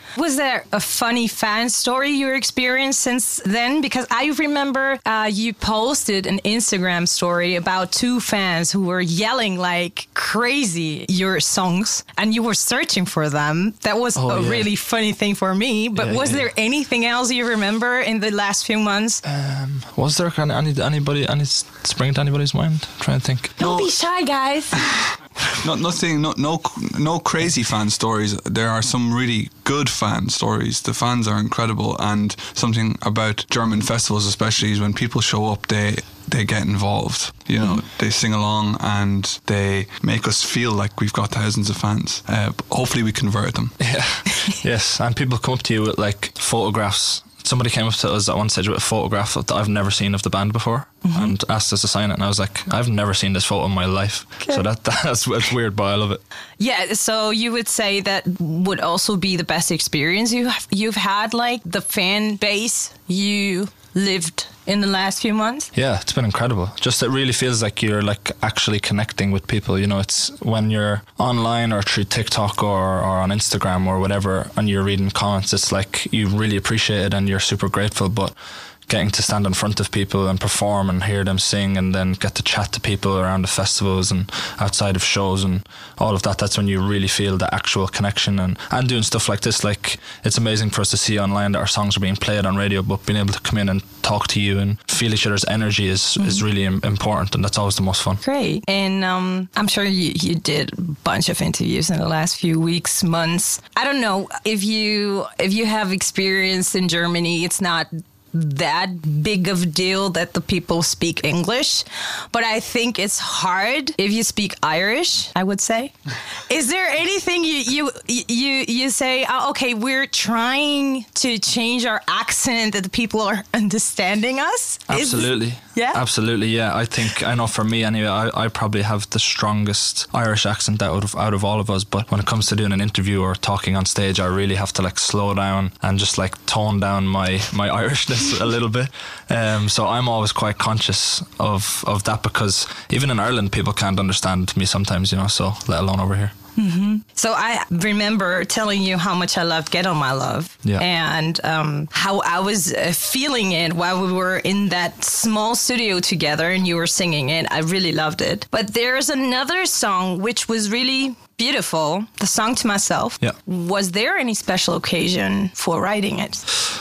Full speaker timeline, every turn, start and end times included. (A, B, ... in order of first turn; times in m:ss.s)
0:00.2-0:19.2 A
0:14.2-0:14.7 B
0:16.0-0:16.5 B
0:19.2-0:23.8 B
0:23.6-0:24.9 A
0:25.6-0:43.8 C
0:43.8-0:56.2 B
0:51.0-0:51.4 A
0:56.6-1:05.7 A
1:05.7-1:18.4 B
1:18.9-1:38.2 B
1:38.2-1:55.9 A
1:56.5-2:06.0 A
2:04.9-2:26.3 B
2:26.6-2:46.4 A